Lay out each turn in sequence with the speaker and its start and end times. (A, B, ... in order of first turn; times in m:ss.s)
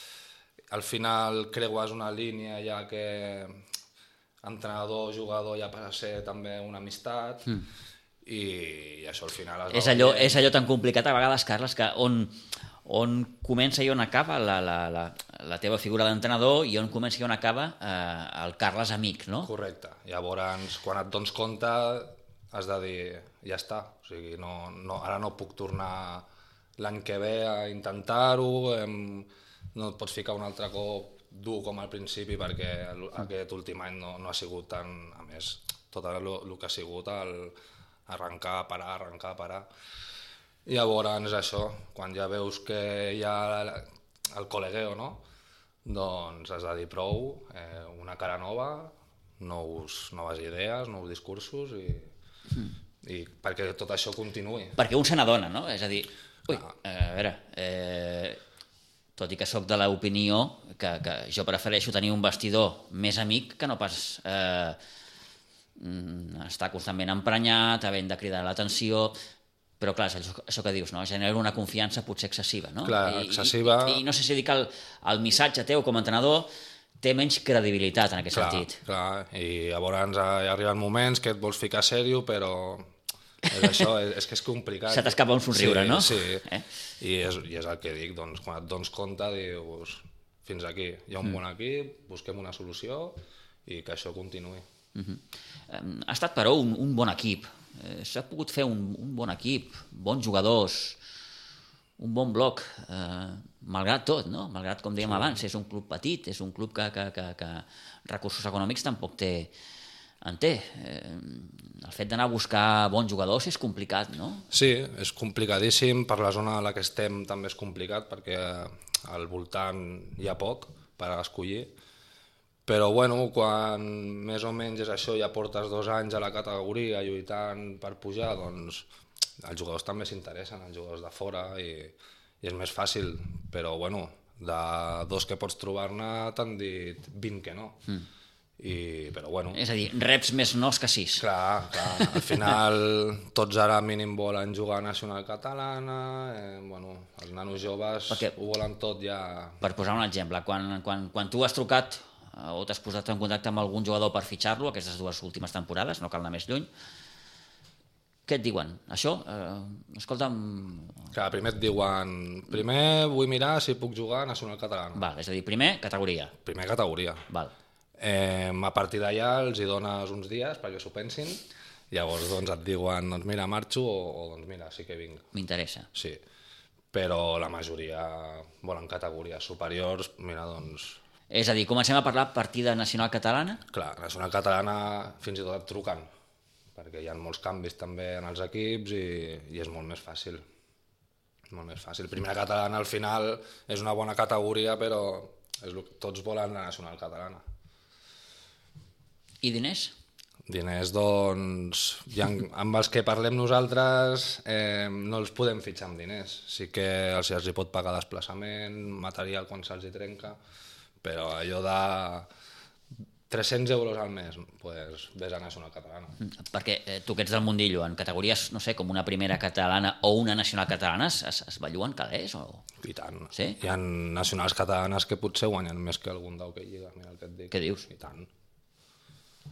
0:00.7-0:03.6 A
0:04.4-0:07.5 A
0:08.2-0:10.4 A
0:09.7-0:19.5 B
0:19.4-0:26.3 A
0:26.8-0:37.6 A
0:38.1-0:39.7 A
0:40.7-0:45.2 A
0:45.8-0:52.1 A
0:53.0-0:54.8 A
0:54.8-0:58.4 B
0:59.2-1:04.8 B
1:05.8-1:09.2 B
1:09.8-1:16.5 B
1:12.8-1:14.0 A
1:17.0-1:18.8 B
1:18.3-1:22.9 A
1:23.5-1:26.5 A
1:23.5-1:23.8 B
1:24.9-1:26.7 B
1:27.0-1:34.6 A
1:35.0-1:41.0 B
1:42.0-1:49.5 B
1:45.1-1:45.4 A
1:50.2-1:54.5 B
1:54.5-2:01.7 A
2:02.7-2:08.9 A
2:09.4-2:17.8 A
2:18.6-2:19.6 A
2:19.5-2:21.3 B
2:21.2-2:29.6 A
2:21.8-2:22.3 B
2:29.6-2:36.7 B
2:38.3-2:41.1 B
2:41.1-2:45.0 A
2:45.0-2:46.4 B
2:46.4-2:47.2 A
2:48.0-2:55.3 A
2:55.3-2:55.9 B
2:55.9-2:56.2 A
2:56.9-3:01.0 A
3:01.3-3:03.6 B
3:03.7-3:06.1 A
3:06.8-3:10.4 A
3:11.5-3:17.4 A
3:19.4-3:19.9 B
3:20.5-3:30.4 A
3:31.0-3:32.3 A
3:33.3-3:36.2 A
3:36.2-3:42.7 B
3:42.8-3:48.3 A
3:43.3-3:43.6 B
3:47.5-3:47.9 B